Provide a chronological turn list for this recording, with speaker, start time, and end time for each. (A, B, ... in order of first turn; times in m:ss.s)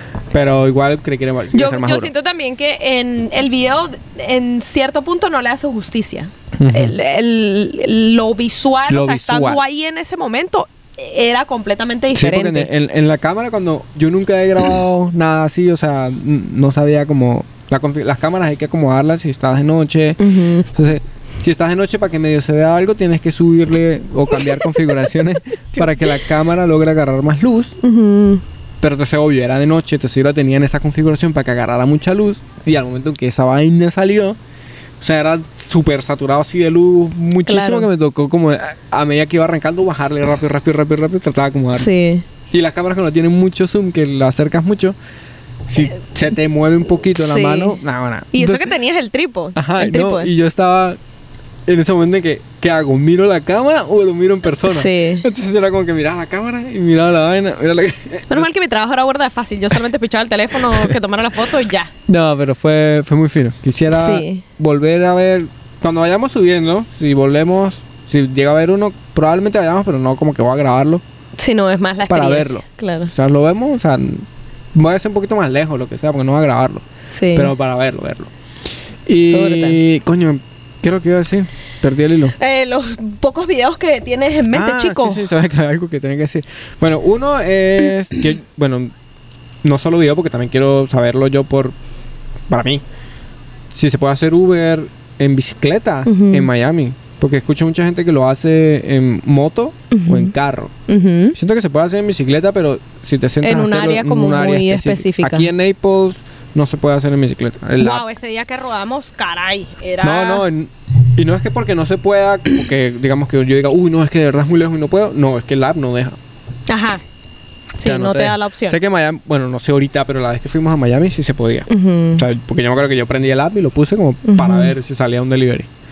0:00.3-0:02.1 A
0:01.5-0:12.7 B
0:06.6-0:07.0 A
0:08.9-0:09.6 A
0:12.1-0:27.8 A
0:20.2-0:20.7 B
0:27.8-0:28.4 B
0:28.8-0:34.4 A
0:35.0-0:41.9 A
0:37.5-0:37.9 B
0:41.8-0:42.3 B
0:42.5-0:45.0 A
0:45.7-0:48.7 A
0:47.2-0:47.8 B
0:48.3-0:50.3 B
0:49.6-0:51.0 A
0:51.7-0:58.5 A
0:54.7-0:55.3 B
0:58.3-1:01.9 B
1:00.6-1:01.0 A
1:02.1-1:11.0 A
1:03.9-1:04.4 B
1:11.4-1:13.1 B
1:12.1-1:18.3 A
1:17.1-1:17.5 B
1:19.1-1:22.4 A
1:19.2-1:19.8 B
1:22.4-1:25.3 B
1:24.5-1:28.9 A
1:29.6-1:31.8 A
1:32.5-1:32.8 A
1:33.7-1:40.7 A
1:36.1-1:36.5 B
1:39.9-1:40.3 B
1:40.9-1:41.4 B
1:41.3-1:48.0 A
1:43.4-1:45.5 B
1:47.8-1:50.5 B
1:50.0-1:56.2 A
1:56.7-1:57.0 B
1:57.8-1:58.8 B
1:57.8-2:05.7 A
2:01.7-2:02.2 B
2:04.2-2:04.7 B